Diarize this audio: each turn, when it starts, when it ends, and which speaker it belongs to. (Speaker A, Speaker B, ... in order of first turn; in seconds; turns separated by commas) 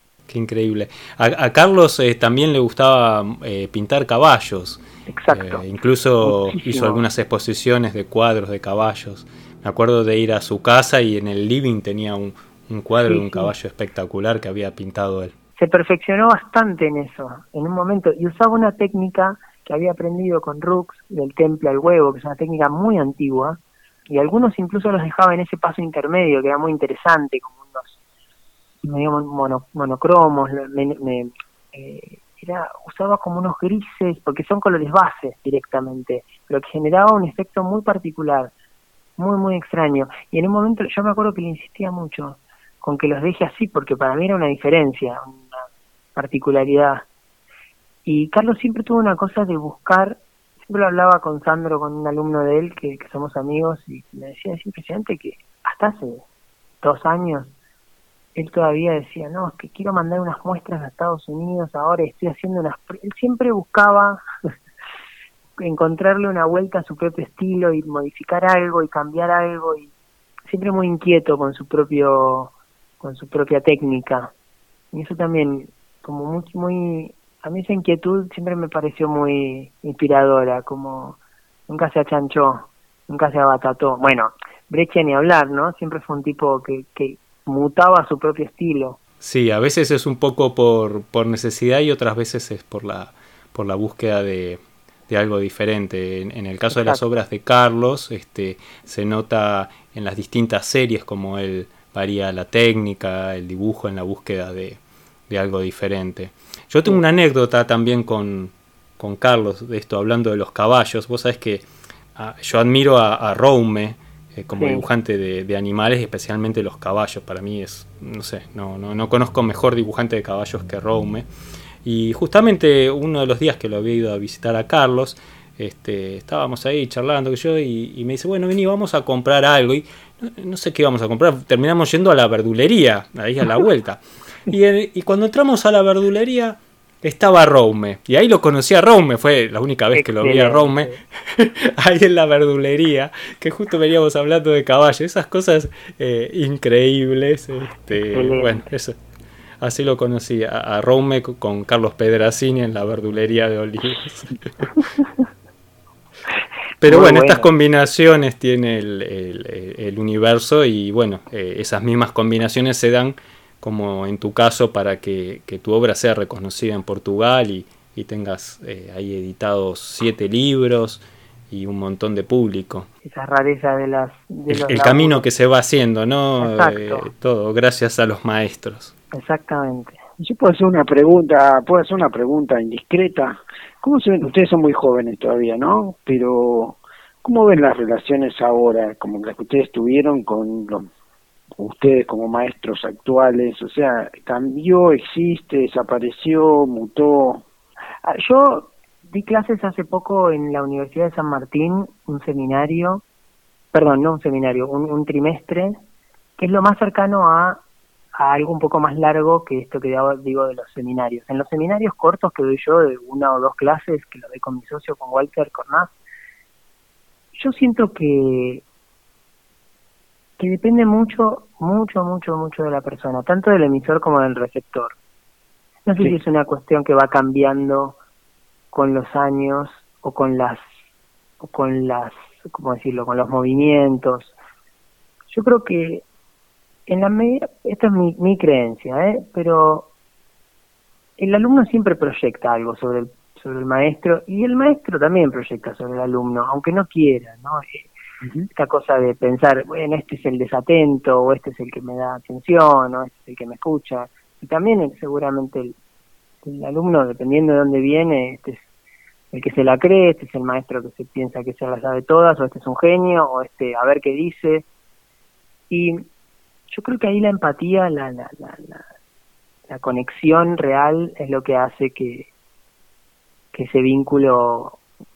Speaker A: 0.3-15.3, Speaker B: 5.1-5.6, Speaker B: 6.2-7.0, Speaker B: 13.1-13.5, Speaker B: 15.6-23.6, Speaker B: 24.1-28.0, Speaker B: 28.8-38.5, Speaker B: 39.2-45.6, Speaker B: 46.1-47.0, Speaker B: 48.0-56.2, Speaker B: 56.8-57.5, Speaker B: 58.3-64.2, Speaker B: 65.6-69.9, Speaker B: 70.5-74.3, Speaker B: 74.9-89.0, Speaker A: 89.2-121.2, Speaker B: 96.7-97.0, Speaker B: 114.6-114.8, Speaker A: 121.8-148.9, Speaker B: 139.9-141.0, Speaker B: 148.1-148.6, Speaker A: 149.6-154.7, Speaker A: 156.8-172.9, Speaker B: 156.8-157.5, Speaker B: 173.0-175.2, Speaker A: 174.5-178.9, Speaker B: 176.4-177.1, Speaker B: 179.1-180.0, Speaker C: 180.2-190.9, Speaker C: 191.6-197.4, Speaker B: 198.0-203.0, Speaker B: 203.7-205.8, Speaker B: 206.4-207.6, Speaker B: 208.2-215.9, Speaker B: 217.3-218.6, Speaker B: 220.4-224.9, Speaker B: 225.8-227.9, Speaker B: 228.7-230.6, Speaker B: 231.4-234.3, Speaker B: 235.3-236.0, Speaker B: 236.9-239.9, Speaker B: 241.2-247.9, Speaker C: 248.2-248.5, Speaker B: 248.5-255.8, Speaker B: 256.4-258.6, Speaker B: 259.3-264.7, Speaker B: 265.7-266.0, Speaker B: 266.7-268.8, Speaker B: 269.7-272.3, Speaker B: 273.5-274.8